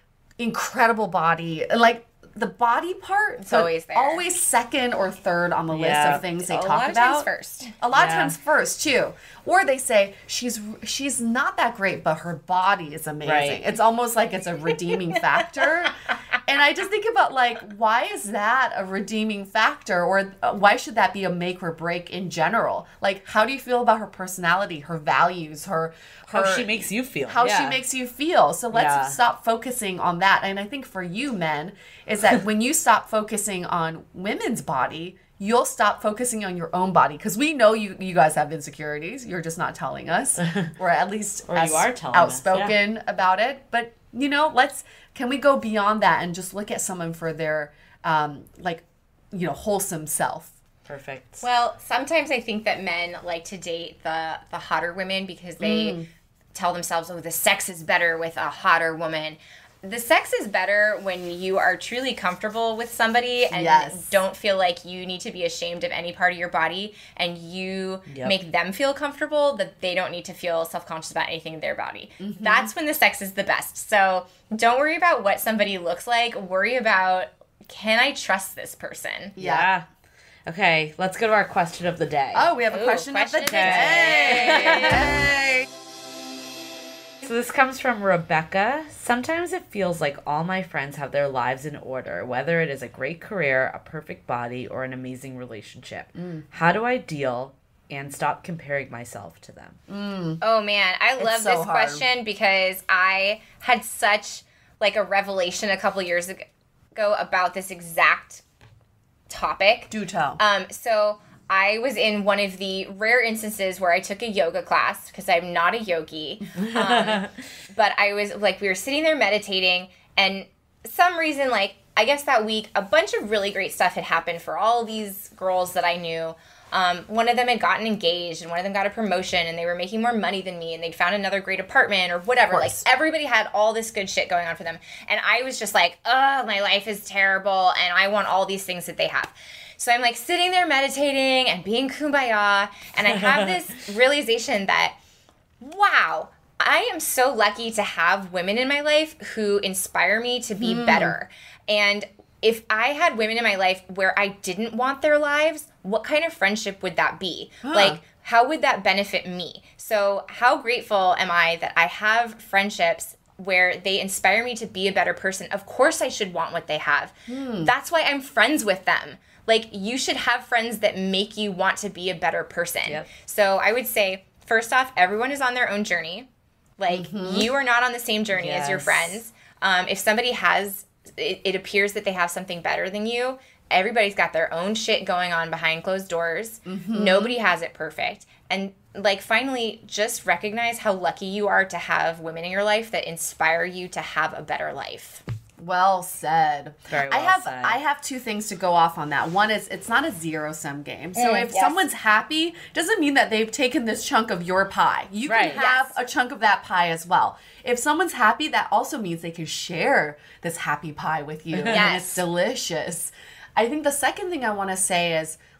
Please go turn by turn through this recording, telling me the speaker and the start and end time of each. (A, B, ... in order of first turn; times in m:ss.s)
0:00.4-0:07.3 A
0:03.4-0:04.2 B
0:05.7-0:06.2 C
0:06.0-0:07.7 B
0:07.8-0:50.5 A
0:07.9-0:08.4 C
0:13.2-0:13.6 C
0:26.3-0:27.8 C
0:28.7-0:29.2 C
0:40.4-0:40.7 C
0:41.5-0:42.8 C
0:50.9-0:51.4 C
0:51.4-0:56.0 B
0:55.6-0:56.1 A
0:56.5-1:19.4 B
1:03.5-1:04.2 A
1:08.1-1:08.4 C
1:12.2-1:12.7 A
1:19.4-1:19.7 A
1:19.4-1:19.9 C
1:20.5-1:22.5 C
1:22.3-1:25.7 A
1:22.7-1:25.1 B
1:23.5-1:25.1 C
1:27.2-1:39.8 C
1:36.2-1:36.4 A
1:39.9-1:40.4 A
1:40.4-1:48.4 B
1:41.2-1:42.0 A
1:49.3-2:25.0 B
1:49.9-1:50.4 A
1:56.6-1:57.4 C
2:12.5-2:12.9 A
2:25.6-2:56.3 B
2:30.6-2:31.2 A
2:37.6-2:38.0 A
2:47.3-2:47.7 A
2:56.8-3:15.2 B
2:56.9-2:57.5 A
2:58.3-2:59.2 C
3:06.7-3:07.4 A
3:15.6-3:35.4 A
3:16.9-3:17.8 C
3:21.2-3:21.8 B
3:25.3-3:25.6 C
3:25.4-3:26.0 B
3:31.5-3:31.8 C
3:31.7-3:32.2 B